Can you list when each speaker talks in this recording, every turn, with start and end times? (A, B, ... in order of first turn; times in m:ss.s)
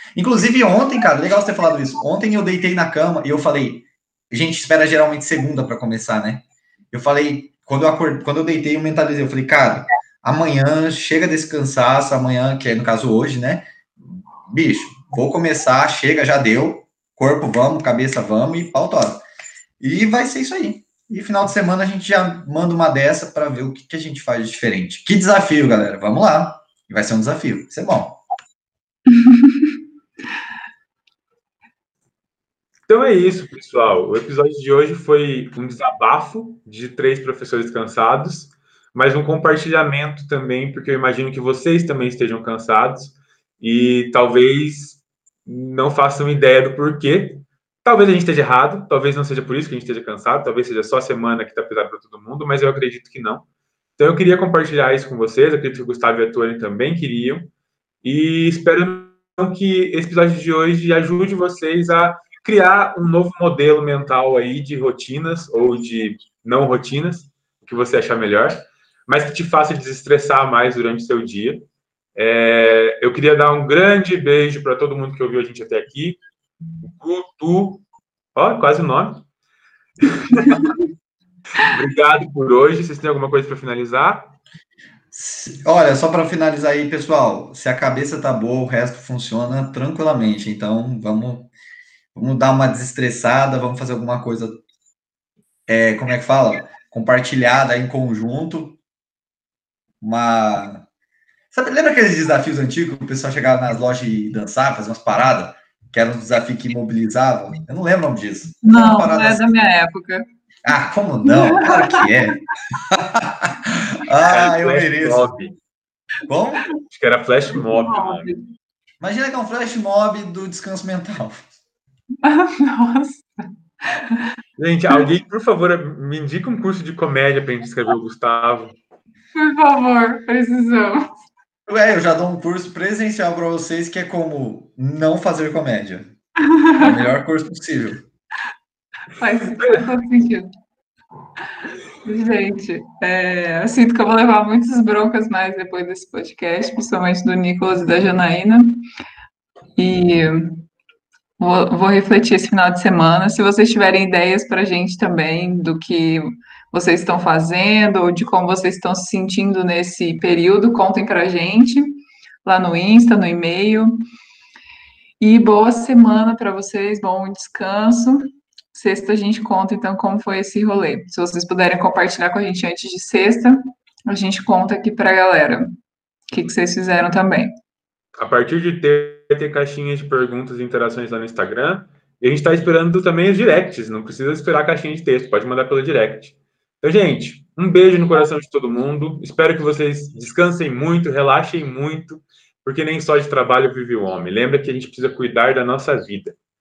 0:00.2-0:19.2 A
0:19.8-0:28.2 A
0:29.1-0:29.6 B
0:32.9-0:53.4 C
0:54.0-0:57.5 C
0:58.0-1:16.2 C
1:16.8-1:19.2 C
1:20.0-1:20.7 C
1:21.6-1:24.3 C
1:25.1-1:31.5 A
1:32.1-1:34.6 A
1:35.7-1:38.8 A
1:40.0-1:40.8 A
1:41.5-1:49.6 A
1:48.6-1:50.2 B
1:50.6-1:55.3 A
1:51.2-1:52.4 B
1:54.2-1:55.5 C
1:56.3-1:56.6 A
1:56.8-1:58.3 C
1:57.6-1:58.4 B
1:59.0-2:01.5 A
2:02.2-2:03.3 B
2:03.9-2:04.2 B
2:04.6-2:08.7 C
2:09.3-2:11.1 B
2:11.7-2:16.0 A
2:16.5-2:17.0 B
2:16.8-2:18.0 A
2:19.2-2:20.5 B
2:19.6-2:19.8 C
2:22.0-2:28.8 B
2:29.8-2:30.6 B
2:31.4-2:43.9 B
2:45.2-2:55.7 B
2:56.3-2:57.5 B
2:58.2-3:16.4 C